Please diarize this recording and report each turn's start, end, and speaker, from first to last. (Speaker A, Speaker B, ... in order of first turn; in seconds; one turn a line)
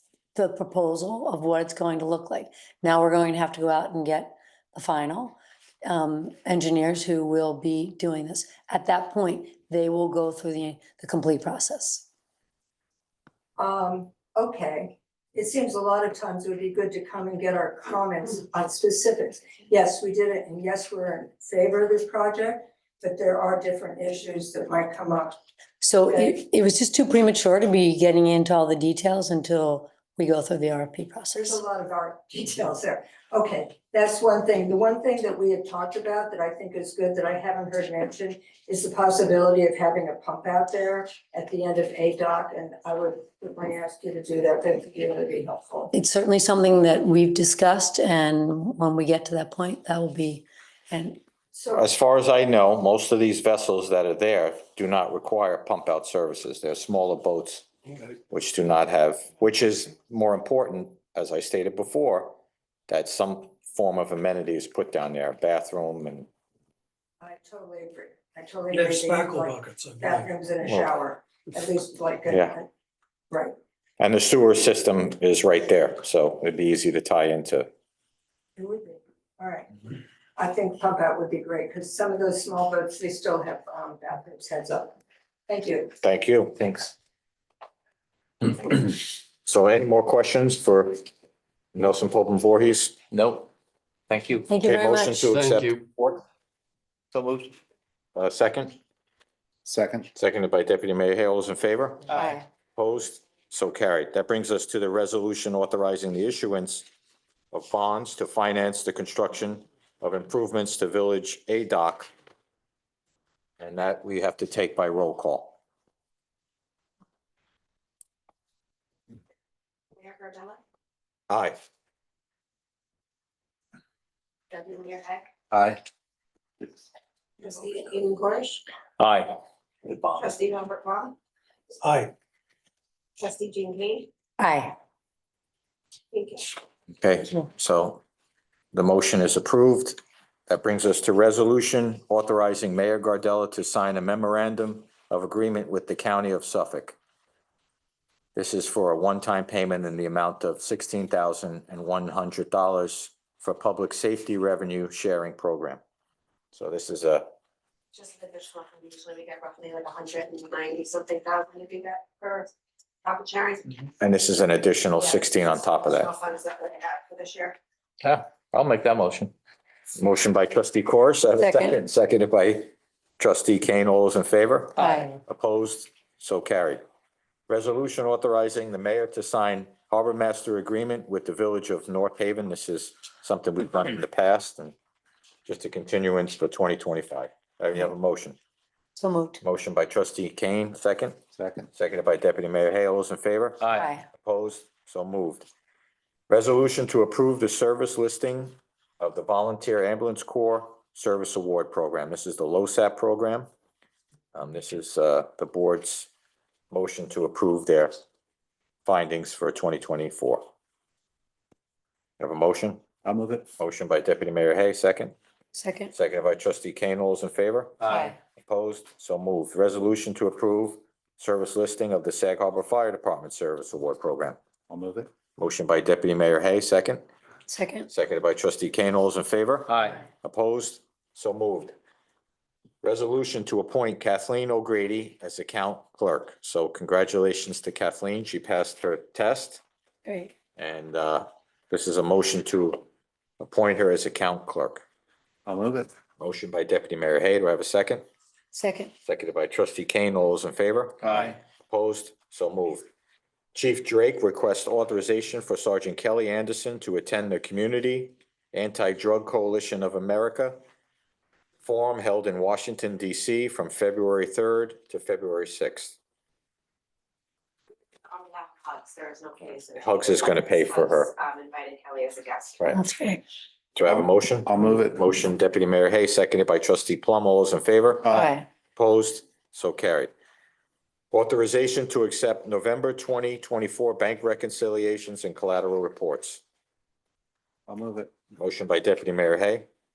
Speaker A: 0.3-12.1
Speaker B: 13.6-25.4
Speaker A: 25.8-31.6
Speaker B: 31.3-45.9
Speaker A: 45.9-51.2
Speaker B: 51.5-51.9
Speaker C: 51.7-57.7
Speaker C: 58.3-62.4
Speaker C: 62.9-66.3
Speaker B: 67.2-72.7
Speaker D: 68.7-70.3
Speaker C: 70.6-70.9
Speaker C: 72.3-72.6
Speaker C: 74.0-77.7
Speaker B: 78.6-79.8
Speaker B: 80.4-85.0
Speaker B: 85.5-85.9
Speaker C: 86.0-86.8
Speaker C: 88.5-91.0
Speaker C: 91.8-93.0
Speaker E: 93.1-93.5
Speaker E: 94.1-94.5
Speaker A: 94.5-95.3
Speaker C: 94.5-96.2
Speaker E: 95.3-95.9
Speaker E: 97.1-97.5
Speaker C: 98.2-98.8
Speaker F: 99.7-100.1
Speaker C: 100.2-102.2
Speaker A: 102.1-102.4
Speaker C: 102.8-106.9
Speaker C: 107.5-112.1
Speaker C: 113.6-115.6
Speaker G: 120.0-120.6
Speaker C: 121.3-121.6
Speaker G: 124.5-125.3
Speaker G: 127.4-128.7
Speaker E: 129.0-129.3
Speaker E: 129.9-130.2
Speaker G: 130.2-131.2
Speaker D: 131.8-132.1
Speaker G: 133.2-134.1
Speaker A: 134.4-134.8
Speaker G: 136.1-136.6
Speaker C: 137.0-138.0
Speaker C: 138.7-147.0
Speaker C: 148.3-155.8
Speaker C: 156.5-157.3
Speaker G: 157.9-162.5
Speaker G: 163.0-163.8
Speaker C: 164.0-166.1
Speaker G: 165.0-167.6
Speaker C: 168.0-169.3
Speaker C: 170.0-176.8
Speaker A: 171.4-171.8
Speaker A: 174.8-175.2
Speaker C: 177.5-184.8
Speaker C: 185.5-188.4
Speaker A: 189.0-189.4
Speaker C: 189.4-191.2
Speaker F: 191.4-191.7
Speaker C: 191.7-195.5
Speaker E: 193.6-193.9
Speaker A: 193.7-194.1
Speaker C: 196.3-203.5
Speaker C: 204.3-206.1
Speaker C: 206.7-207.9
Speaker C: 208.9-210.4
Speaker C: 212.2-212.8
Speaker F: 213.0-213.4
Speaker C: 213.6-215.2
Speaker A: 215.5-215.9
Speaker C: 215.9-224.4
Speaker A: 217.9-218.2
Speaker F: 224.7-225.1
Speaker C: 225.4-227.1
Speaker A: 227.5-227.9
Speaker C: 227.9-231.7
Speaker E: 229.7-230.0
Speaker C: 232.8-239.6
Speaker A: 240.1-240.3
Speaker C: 240.6-242.8
Speaker C: 243.4-244.8
Speaker F: 245.5-245.9
Speaker C: 246.2-248.0
Speaker A: 248.5-248.9
Speaker C: 249.1-252.9
Speaker F: 251.1-251.3
Speaker C: 253.6-260.6
Speaker C: 261.6-266.0
Speaker G: 268.1-272.6
Speaker C: 269.8-271.1
Speaker A: 272.7-273.3
Speaker C: 273.8-278.2
Speaker F: 273.9-275.0
Speaker F: 278.0-278.3
Speaker A: 278.1-278.5
Speaker C: 278.8-280.1
Speaker C: 281.1-286.4
Speaker F: 287.7-288.1
Speaker C: 288.4-289.7